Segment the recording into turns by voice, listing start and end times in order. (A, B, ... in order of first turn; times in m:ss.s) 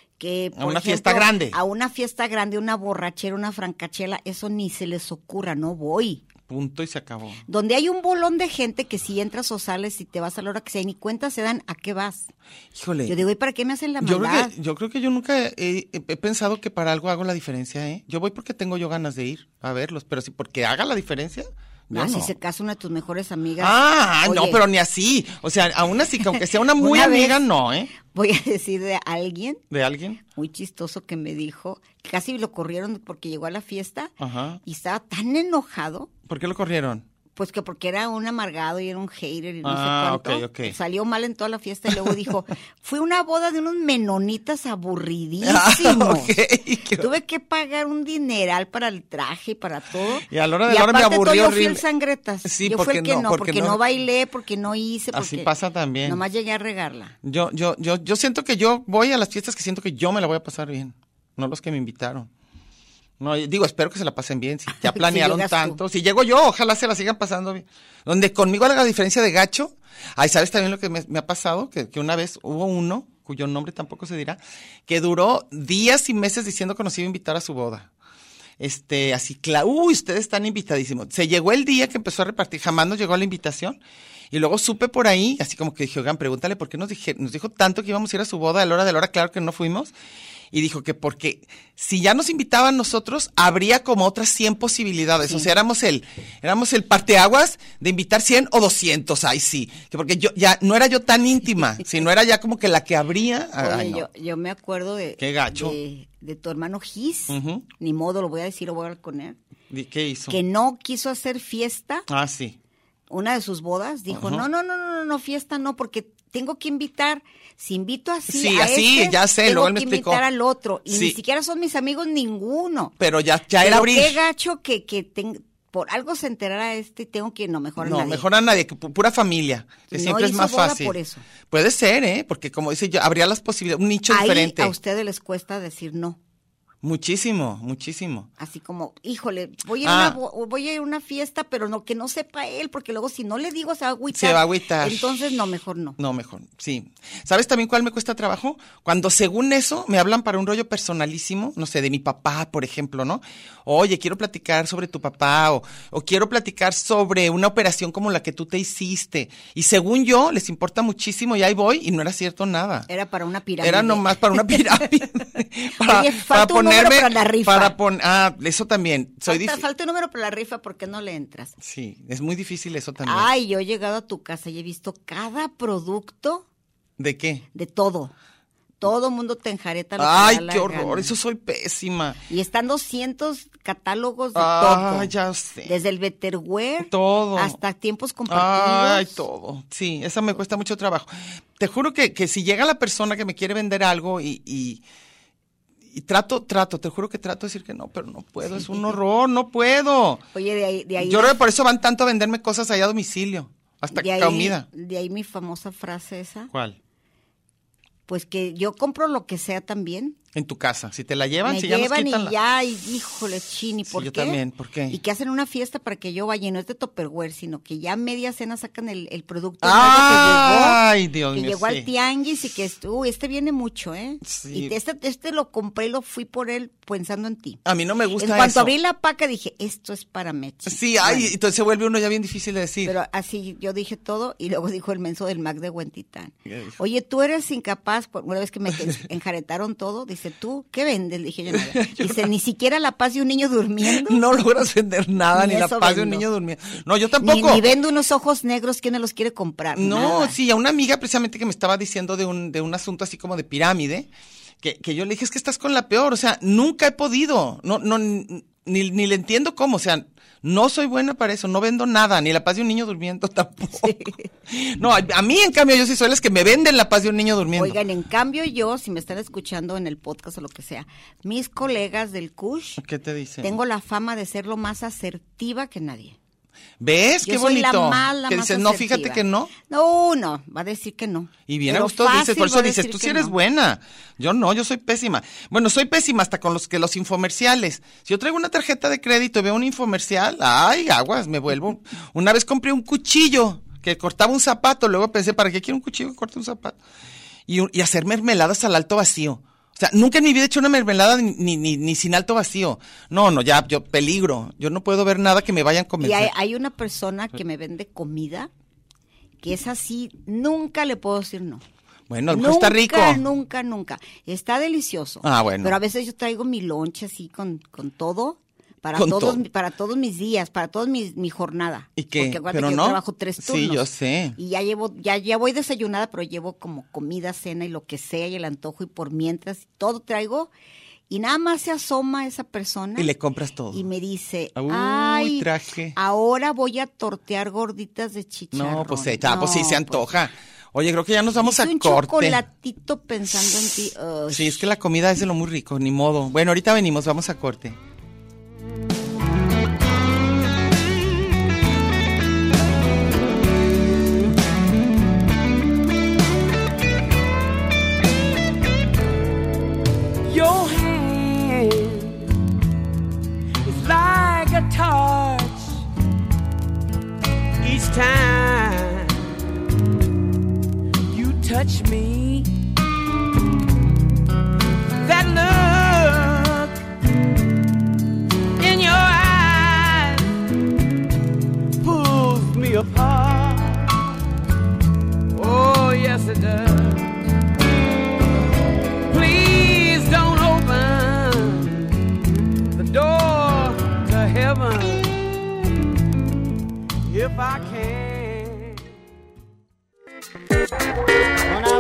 0:00.2-0:06.3 A
0:00.6-0:01.6 B
0:06.5-0:07.4 B
0:07.5-0:12.3 A
0:12.8-0:13.2 B
0:13.1-0:14.5 A
0:14.0-0:22.3 B
0:21.9-0:24.6 A
0:23.6-0:27.9 B
0:26.8-0:27.4 A
0:28.0-0:29.6 A
0:29.7-0:30.2 B
0:30.3-0:34.1 A
0:34.2-0:34.6 B
0:34.6-0:36.1 A
0:36.3-0:37.0 B
0:37.4-0:46.4 A
0:39.6-0:40.8 B
0:41.9-0:42.3 B
0:45.4-0:47.1 B
0:47.0-0:55.5 A
0:50.3-0:51.8 B
0:52.4-0:53.8 B
0:55.1-0:56.2 B
0:56.0-0:57.2 A
0:57.2-1:02.3 B
1:03.2-1:17.9 B
1:04.8-1:05.8 A
1:18.6-1:23.8 B
1:24.3-1:29.9 B
1:30.5-1:44.1 B
1:43.6-1:49.4 A
1:45.2-1:45.8 B
1:47.3-1:47.6 B
1:49.7-1:50.4 B
1:50.3-1:52.1 A
1:52.1-1:52.6 B
1:53.1-2:02.9 A
1:54.1-1:54.4 B
1:58.3-2:00.2 B
2:00.9-2:01.2 B
2:03.0-2:04.2 B
2:03.6-2:08.3 A
2:07.8-2:11.0 B
2:09.9-2:11.2 A
2:11.5-2:14.8 B
2:14.1-2:16.2 A
2:16.8-2:18.3 B
2:18.4-2:26.0 A
2:19.8-2:20.2 B
2:24.1-2:25.2 B
2:26.0-2:42.9 B
2:42.9-2:44.8 A
2:43.6-2:49.6 B
2:45.8-2:47.8 A
2:49.3-2:51.6 A
2:51.6-2:53.3 B
2:53.0-2:56.5 A
2:57.0-2:57.4 B
2:57.5-2:58.1 A
2:58.8-3:01.1 A
3:00.0-3:02.2 B
3:02.3-3:05.1 A
3:04.4-3:05.7 B
3:05.6-3:09.2 A
3:06.8-3:07.6 B
3:08.3-3:14.8 B
3:15.9-3:20.2 B
3:18.6-3:19.0 A
3:20.3-3:21.4 A
3:21.0-3:24.7 B
3:23.9-3:26.5 A
3:26.5-3:26.8 B
3:28.1-3:30.2 A
3:30.3-3:32.4 B
3:31.4-3:47.6 A
3:33.9-3:35.0 B
3:39.6-3:41.9 B
3:44.2-3:44.7 B
3:47.6-3:48.7 B
3:48.2-3:51.3 A
3:50.7-3:53.0 B
3:52.8-4:04.2 A
3:56.5-3:56.7 B
4:01.5-4:02.3 B
4:03.8-4:07.8 B
4:05.3-4:06.3 A
4:07.2-4:10.4 A
4:09.7-4:14.1 B
4:14.6-4:27.8 B
4:23.8-4:24.3 A
4:27.6-4:32.8 A
4:32.8-4:33.6 B
4:33.4-4:36.2 A
4:36.8-4:39.5 B
4:37.2-4:43.4 A
4:41.5-4:56.8 B
4:57.5-5:06.3 B
5:06.0-5:08.5 A
5:09.4-5:11.6 A
5:12.1-5:13.2 B
5:12.3-5:30.5 A
5:15.2-5:15.8 B
5:19.0-5:19.4 B
5:22.0-5:24.4 B
5:31.1-5:33.1 A
5:33.0-5:33.8 B
5:33.7-5:40.1 A
5:34.6-5:36.0 B
5:38.5-5:42.4 B
5:41.4-5:44.7 A
5:44.3-5:47.8 B
6:00.2-6:02.3 C
6:03.6-6:05.9 C
6:07.6-6:09.3 C
6:11.1-6:12.5 C
6:15.0-6:16.8 C
6:18.6-6:20.3 C
6:21.8-6:24.2 C
6:25.3-6:27.1 C
6:29.1-6:31.9 C
6:32.8-6:35.2 C
6:37.0-6:38.8 C